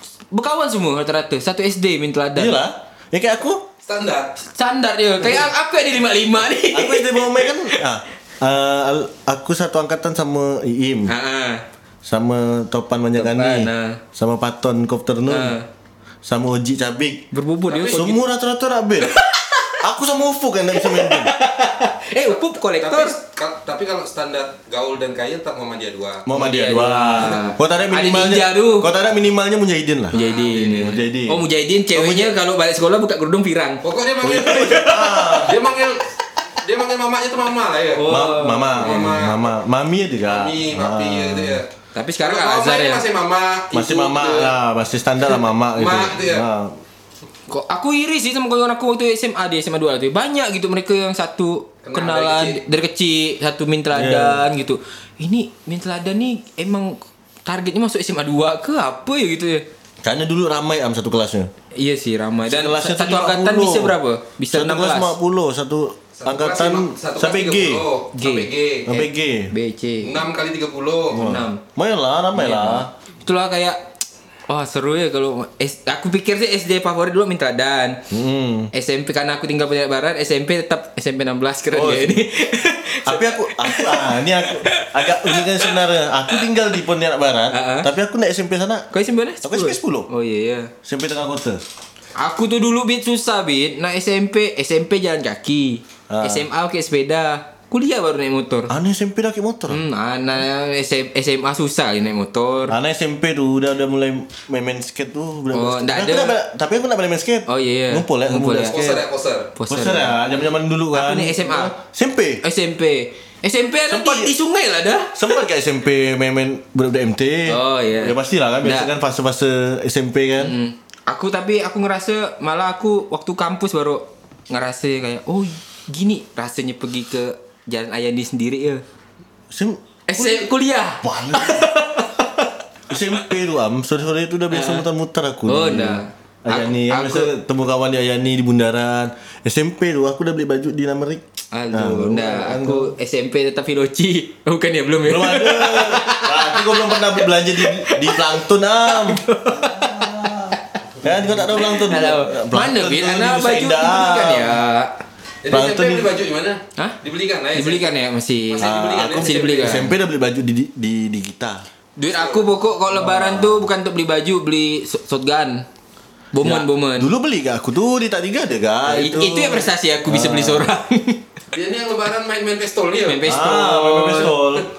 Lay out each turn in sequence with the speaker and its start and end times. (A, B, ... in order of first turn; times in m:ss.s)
0:00.3-0:02.6 A
0:02.4-0:03.6 B
0:03.9-0:04.3 C
0:04.4-0:07.8 A
0:06.7-0:11.1 B
0:11.1-0:11.6 A
0:12.0-0:15.6 B
0:13.2-0:14.0 A
0:15.3-0:15.7 A
0:16.2-0:17.3 B
0:17.3-0:18.2 A
0:17.7-0:18.1 C
0:17.9-0:19.1 B
0:19.0-0:19.8 A
0:19.8-0:21.4 B
0:20.8-0:23.2 A
0:22.2-0:26.2 C
0:26.2-0:32.4 B
0:26.3-0:28.9 A
0:27.2-0:27.6 C
0:30.1-0:35.5 A
0:30.1-0:30.9 C
0:33.8-0:38.1 C
0:34.2-0:35.6 B
0:38.0-0:39.2 A
0:38.1-0:41.6 B
0:38.8-0:39.5 C
0:40.2-0:41.7 C
0:41.9-0:43.0 A
0:42.2-0:44.5 C
0:43.7-0:46.8 B
0:45.7-0:46.5 C
0:47.5-0:59.6 A
0:51.8-0:52.6 C
0:53.9-0:54.4 B
1:00.0-1:01.5 B
1:01.8-1:05.2 A
1:02.5-1:04.0 B
1:04.5-1:07.9 B
1:06.2-1:09.0 C
1:08.2-1:08.5 A
1:08.9-1:09.5 B
1:09.5-1:10.2 A
1:10.0-1:11.3 C
1:11.1-1:12.9 B
1:11.1-1:11.6 A
1:12.4-1:13.8 A
1:14.5-1:18.0 A
1:18.1-1:18.7 B
1:18.7-1:25.8 A
1:21.7-1:22.3 B
1:23.0-1:28.9 B
1:27.5-1:27.9 A
1:28.9-1:30.7 A
1:29.4-1:30.1 B
1:30.8-1:31.6 B
1:32.2-1:38.7 A
1:36.1-1:36.5 B
1:38.7-1:39.8 B
1:39.7-1:42.8 A
1:42.7-1:49.0 B
1:45.5-1:46.4 A
1:47.5-1:48.8 A
1:48.6-1:49.5 C
1:49.6-1:50.2 A
1:49.7-1:52.4 B
1:50.9-1:51.7 A
1:52.4-1:55.2 A
1:53.9-1:54.4 B
1:55.1-2:00.5 B
1:57.5-1:58.9 A
2:00.4-2:08.8 A
2:09.5-2:10.5 B
2:10.1-2:12.2 A
2:11.0-2:11.7 B
2:12.9-2:22.9 B
2:14.5-2:14.8 A
2:15.5-2:17.3 A
2:21.5-2:30.6 A
2:25.0-2:34.6 B
2:31.4-2:34.9 A
2:35.4-2:37.9 C
2:35.5-2:36.1 B
2:37.5-2:39.9 A
2:38.5-2:39.9 C
2:38.6-2:41.6 B
2:42.0-2:45.6 A
2:42.1-2:42.5 C
2:42.9-2:43.6 B
2:46.3-2:47.1 A
2:46.4-2:50.7 B
2:48.9-2:51.2 A
2:51.5-2:53.3 C
2:53.1-2:54.4 A
2:53.2-2:54.7 B